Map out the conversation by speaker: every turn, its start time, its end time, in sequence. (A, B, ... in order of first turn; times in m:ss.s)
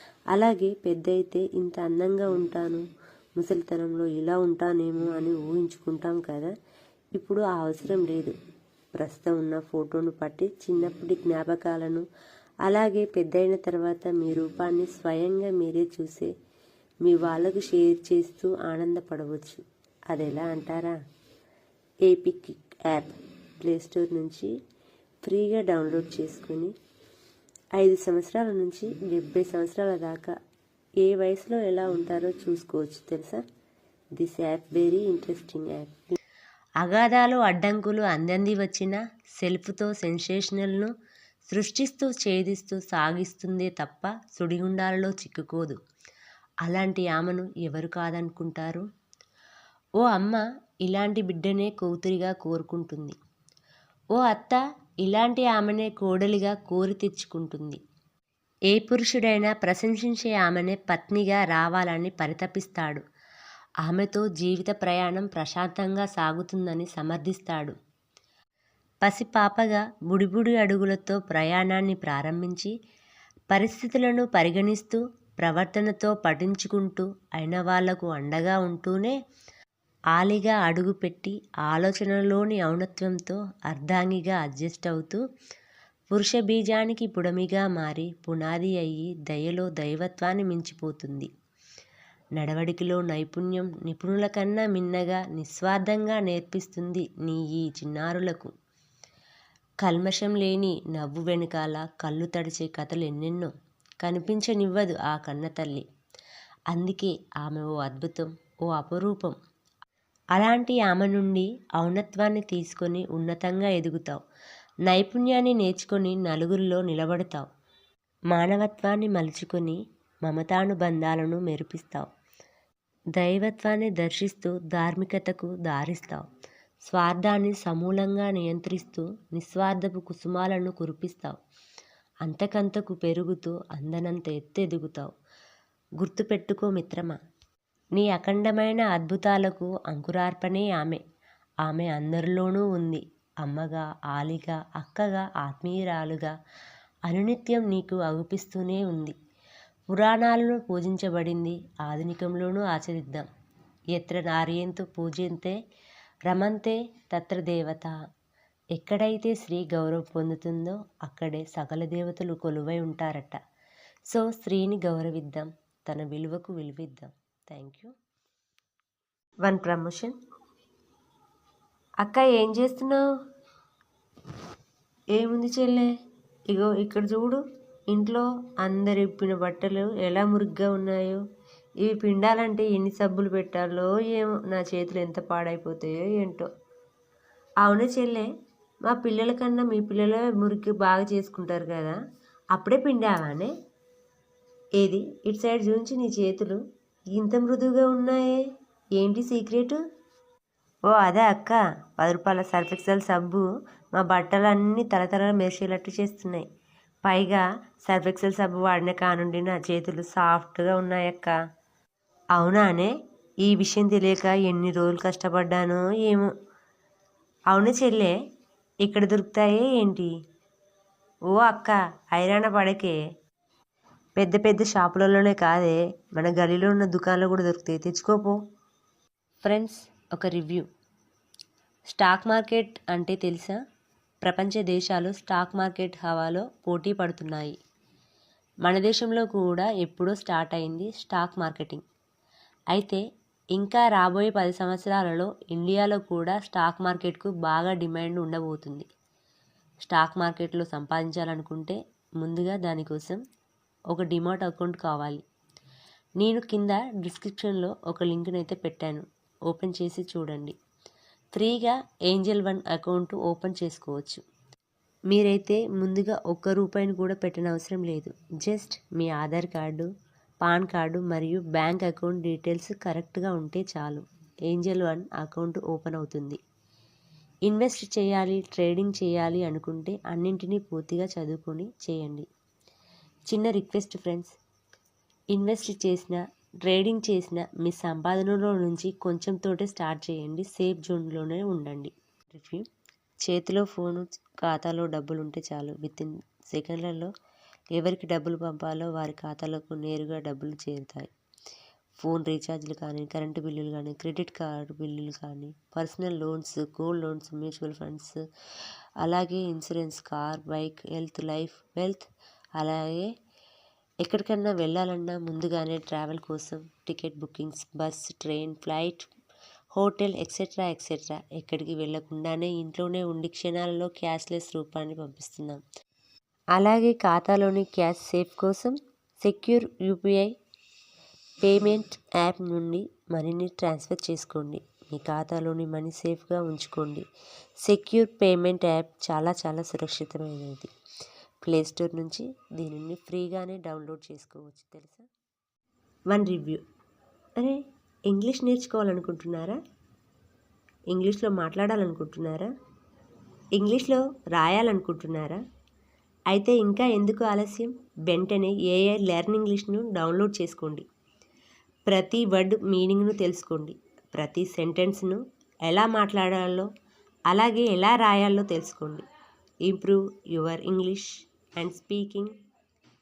0:00.3-0:02.8 A
0:03.4-0:06.5 A
0:07.2-0:08.3 A
0:09.0-0:12.0 A
0:12.6-0:16.3 A
0:17.0-0:21.0 A
0:22.0-0:24.5 A
0:25.2-0:26.7 A
0:27.8-0:30.3 A
0:31.0-0:33.4 A
0:34.2-0:36.1 A
0:36.8-0:40.9 A
0:41.4-0:45.8 A
0:46.6-0:48.8 A
0:50.0-0:53.2 A
0:54.1-0:57.8 A
0:58.7-1:03.0 A
1:03.8-1:07.7 A
1:09.0-1:12.7 A
1:13.5-1:19.2 A
1:20.1-1:25.2 A
1:26.1-1:31.3 A
1:32.4-1:38.5 A
1:39.8-1:43.5 A
1:44.0-1:45.8 A
1:46.7-1:49.3 A
1:50.3-1:54.2 A
1:54.9-1:57.5 A
1:58.3-2:02.1 A
2:03.2-2:06.2 A
2:06.8-2:11.4 A
2:12.2-2:15.1 A
2:16.0-2:17.2 A
2:18.0-2:21.0 A
2:21.6-2:26.3 A
2:27.1-2:29.1 A
2:29.9-2:33.3 A
2:33.9-2:35.6 A
2:36.3-2:37.9 A
2:38.7-2:43.4 A
2:44.1-2:47.9 A
2:49.4-2:50.2 A
2:52.0-2:53.0 A
2:55.1-2:55.9 A
2:56.5-3:01.2 A
3:01.8-3:06.5 A
3:07.6-3:08.3 A
3:08.8-3:12.0 A
3:12.5-3:13.5 A
3:14.8-3:16.6 A
3:17.1-3:18.4 A
3:19.0-3:19.8 A
3:20.9-3:26.5 A
3:27.0-3:31.3 A
3:32.4-3:36.3 A
3:37.5-3:38.1 A
3:38.8-3:40.1 A
3:41.3-3:43.0 A
3:44.2-3:48.4 A
3:49.4-3:50.6 A
3:51.9-3:53.6 A
3:54.2-3:57.6 A
3:58.6-4:01.8 A
4:02.7-4:03.0 A
4:03.6-4:08.9 A
4:09.8-4:13.2 A
4:13.9-4:15.2 A
4:16.2-4:20.5 A
4:21.3-4:24.2 A
4:25.1-4:29.9 A
4:30.4-4:36.4 A
4:37.4-4:42.3 A
4:43.3-4:44.4 A
4:45.3-4:52.6 A
4:53.2-4:57.1 A
4:57.8-5:01.1 A
5:02.0-5:08.2 A
5:09.0-5:13.1 A
5:14.0-5:19.1 A
5:19.7-5:25.6 A
5:26.5-5:30.3 A
5:31.4-5:37.0 A
5:37.6-5:40.7 A
5:41.4-5:45.1 A
5:46.1-5:46.6 A
5:47.4-5:49.6 A
5:50.9-5:52.5 A
5:53.6-5:55.4 A
5:56.3-6:00.8 A
6:01.9-6:06.7 A
6:07.3-6:09.0 A
6:09.6-6:12.3 A